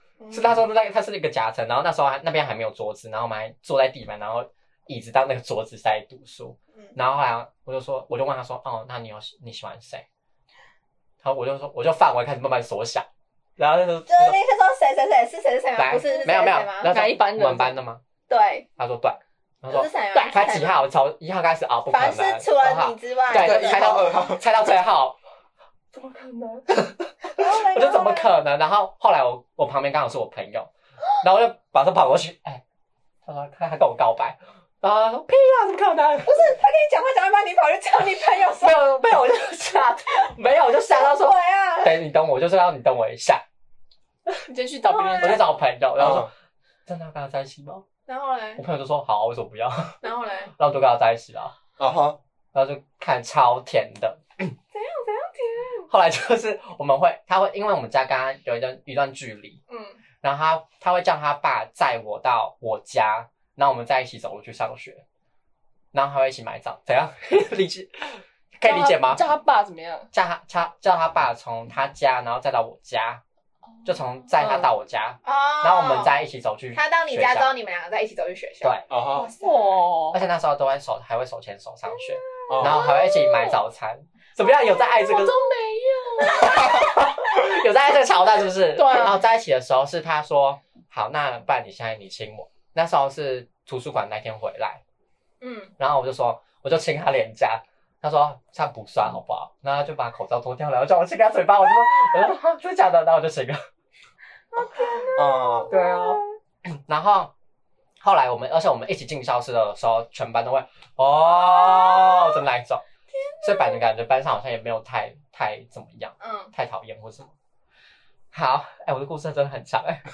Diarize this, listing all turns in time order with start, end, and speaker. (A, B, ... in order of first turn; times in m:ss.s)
0:00.2-0:00.6 A
0:00.3-0:10.0 B
0:11.2-0:13.1 B
0:13.6-0:14.4 B
0:14.1-0:16.9 A
0:15.8-0:18.0 B
0:16.9-0:17.7 C
0:18.3-0:18.7 A
0:18.8-0:25.2 B
0:19.7-0:20.8 A
0:20.1-0:20.4 C
0:21.9-0:24.0 A
0:23.3-0:24.4 D
0:25.9-0:32.6 B
0:27.3-0:28.3 A
0:33.2-0:36.5 B
0:36.2-0:38.7 A
0:38.6-0:43.4 B
0:40.9-0:42.0 A
0:44.5-0:45.5 C
0:44.8-0:45.4 A
0:45.2-0:46.3 B
0:46.0-0:46.3 D
0:46.9-0:47.8 B
0:48.1-0:48.6 A
0:48.6-0:50.0 B
0:50.0-0:50.5 A
0:50.6-0:51.6 B
0:51.8-0:52.2 D
0:52.5-0:54.5 B
0:54.7-0:55.9 A
0:55.9-0:59.6 B
0:59.7-1:00.0 A
1:00.2-1:05.0 B
1:05.9-1:09.2 B
1:08.6-1:10.1 C
1:10.1-1:13.2 B
1:13.8-1:17.5 B
1:14.4-1:14.7 C
1:15.2-1:16.2 A
1:16.7-1:19.8 A
1:18.6-1:18.9 B
1:18.9-1:19.3 D
1:19.4-1:20.2 C
1:20.1-1:25.4 B
1:22.5-1:22.8 D
1:22.6-1:23.6 C
1:24.7-1:26.5 C
1:26.2-1:34.8 B
1:28.7-1:29.1 C
1:35.4-1:35.7 A
1:35.8-1:43.6 B
1:44.5-1:46.2 A
1:45.1-1:45.7 D
1:45.7-1:46.2 B
1:46.9-1:47.3 B
1:48.0-1:52.8 B
1:51.2-1:52.4 A
1:53.1-1:53.8 A
1:53.4-1:57.3 B
1:56.2-1:56.5 A
1:58.3-2:00.0 B